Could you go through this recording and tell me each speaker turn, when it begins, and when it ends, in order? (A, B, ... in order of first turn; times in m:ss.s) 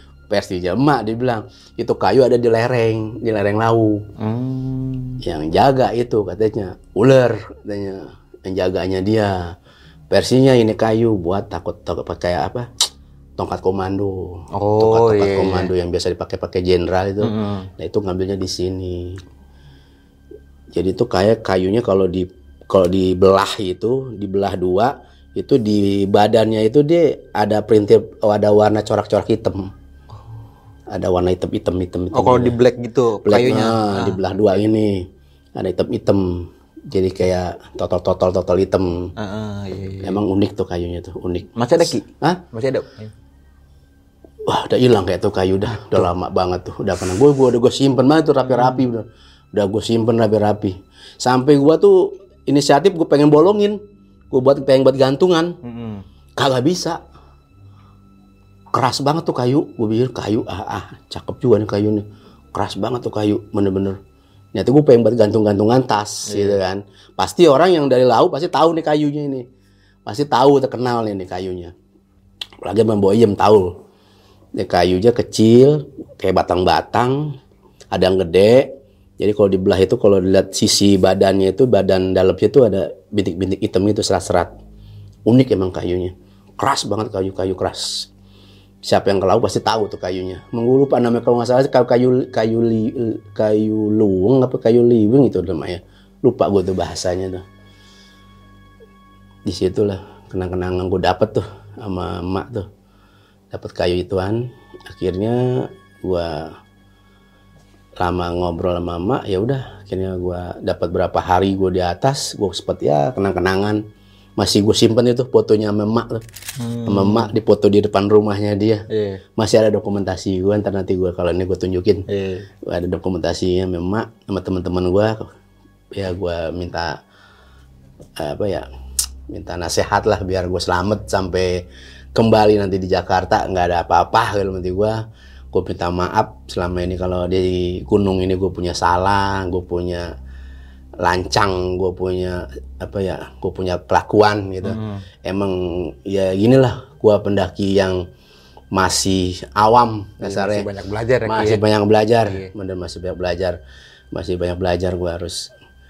0:00.3-0:04.0 A
0:04.2-0:05.2 B
0:05.2-0:09.5 A
0:10.1-0:12.7 A
0:13.4-0:19.2 A
0:14.5-0:15.7 B
0:17.2-0:17.7 B
0:20.7-0:29.7 A
0:30.9-0:32.6 A
0:32.1-0:34.2 B
0:33.2-0:39.1 A
0:39.2-0:40.2 B
0:40.0-0:42.4 A
0:41.6-0:43.1 B
0:44.5-0:53.8 A
0:45.7-0:46.1 B
0:48.4-0:48.9 B
0:54.3-0:55.5 A
0:55.6-0:56.0 B
0:56.4-0:57.0 A
0:58.7-1:02.0 A
1:02.6-1:04.0 A
1:04.6-1:09.4 A
1:06.3-1:06.6 B
1:10.1-1:11.7 A
1:12.6-1:13.7 A
1:14.6-1:17.4 A
1:17.9-1:24.5 A
1:25.3-1:28.1 A
1:28.8-1:37.4 A
1:39.5-1:42.7 A
1:43.5-1:46.6 A
1:48.0-1:53.8 A
1:54.4-1:56.2 A
1:56.6-1:57.3 B
1:56.9-1:58.8 A
1:58.9-1:59.2 B
1:59.4-2:02.0 A
2:02.1-2:02.5 B
2:02.6-2:05.3 A
2:05.9-2:07.0 A
2:08.2-2:08.7 A
2:09.3-2:11.6 A
2:12.2-2:15.0 A
2:15.5-2:20.1 A
2:21.0-2:28.0 A
2:24.6-2:25.0 B
2:28.7-2:30.7 A
2:30.2-2:31.6 B
2:31.2-2:33.6 A
2:32.2-2:32.5 B
2:34.1-2:35.5 A